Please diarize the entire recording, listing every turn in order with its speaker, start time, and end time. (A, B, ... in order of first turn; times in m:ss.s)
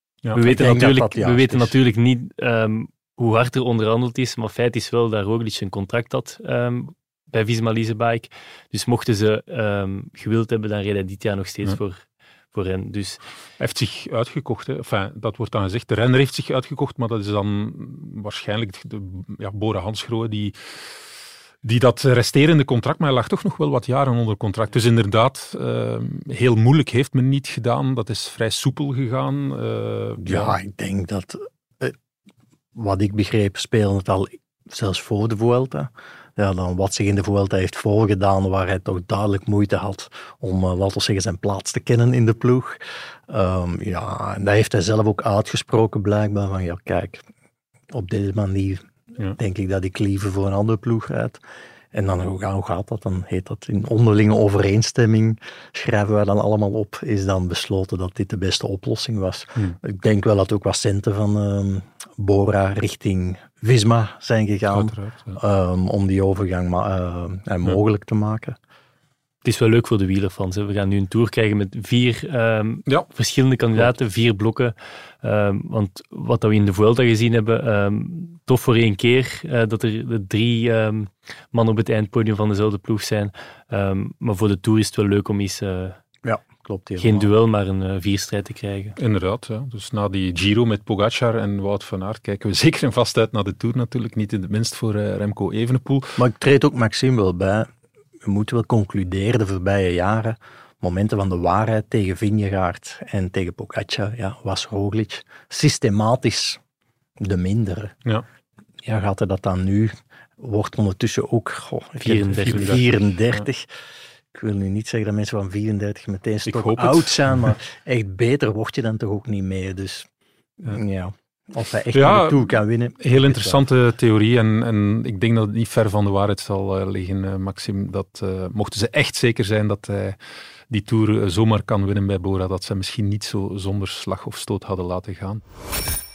0:00.3-0:12.0 A
0:00.4-0:01.7 B
0:12.5-0:13.2 A
0:13.6-0:20.6 C
0:21.6-0:30.6 C
0:30.2-0:32.0 B
0:32.7-0:47.2 B
0:47.9-0:48.8 B
0:49.4-0:51.4 B
0:51.9-1:08.6 B
1:04.7-1:05.4 C
1:09.4-1:26.0 A
1:26.2-1:27.3 B
1:27.0-1:29.0 A
1:29.0-1:36.2 C
1:36.2-1:37.7 B
1:38.2-1:46.6 B
1:47.2-1:47.9 B
1:48.8-1:53.7 B
1:52.0-1:52.8 A
1:52.4-1:52.8 C
1:54.3-2:00.1 B
1:56.5-1:57.6 C
2:00.6-2:03.6 B
2:01.9-2:10.2 C
2:10.7-2:15.4 C